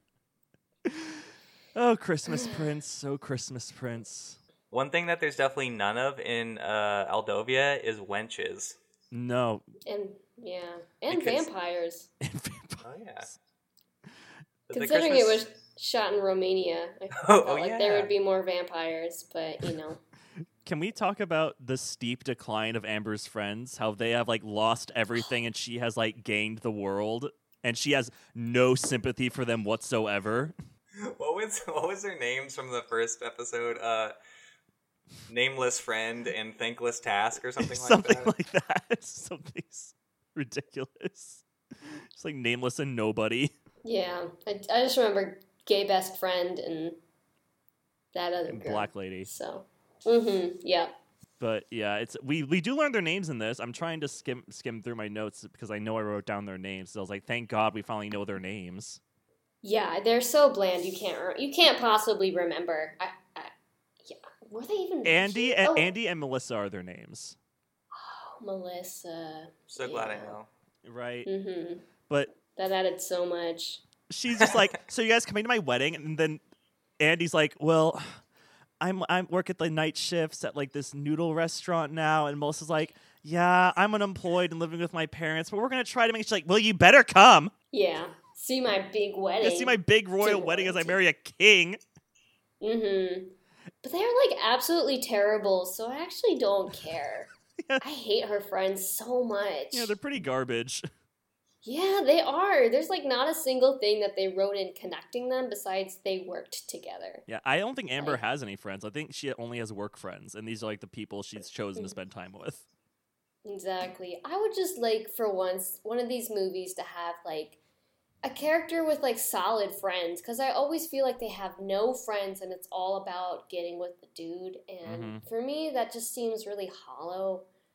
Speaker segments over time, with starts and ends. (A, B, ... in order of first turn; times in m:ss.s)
0:00.8-0:01.2 A
0:01.7-0:04.4 A
0:02.3-0:02.6 B
0:04.7-0:08.8 C
0:09.1-0:09.6 A
0:09.8-0:12.1 B
0:12.2-0:13.3 A
0:12.8-0:13.3 C
0:14.7-0:15.4 C
0:14.7-0:20.0 B
0:17.2-0:18.1 C
0:20.6-0:30.5 A
0:31.0-0:34.1 C
0:35.3-0:38.3 C
0:37.6-0:43.5 A
0:43.8-0:47.0 B
0:48.1-0:50.9 B
0:48.5-0:49.3 A
0:51.4-0:59.0 A
0:59.6-1:03.5 B
1:04.0-1:05.9 B
1:05.0-1:07.4 A
1:07.9-1:10.4 B
1:09.7-1:10.5 C
1:10.8-1:11.3 A
1:11.2-1:11.9 B
1:12.5-1:13.8 B
1:14.1-1:16.4 A
1:17.0-1:18.2 A
1:18.8-1:27.5 A
1:27.7-1:31.0 B
1:29.4-1:31.8 A
1:32.6-1:40.0 B
1:39.7-1:40.8 A
1:41.6-1:47.2 B
1:47.3-1:52.6 A
1:53.4-1:57.6 B
1:58.2-2:07.5 B
2:04.8-2:05.2 A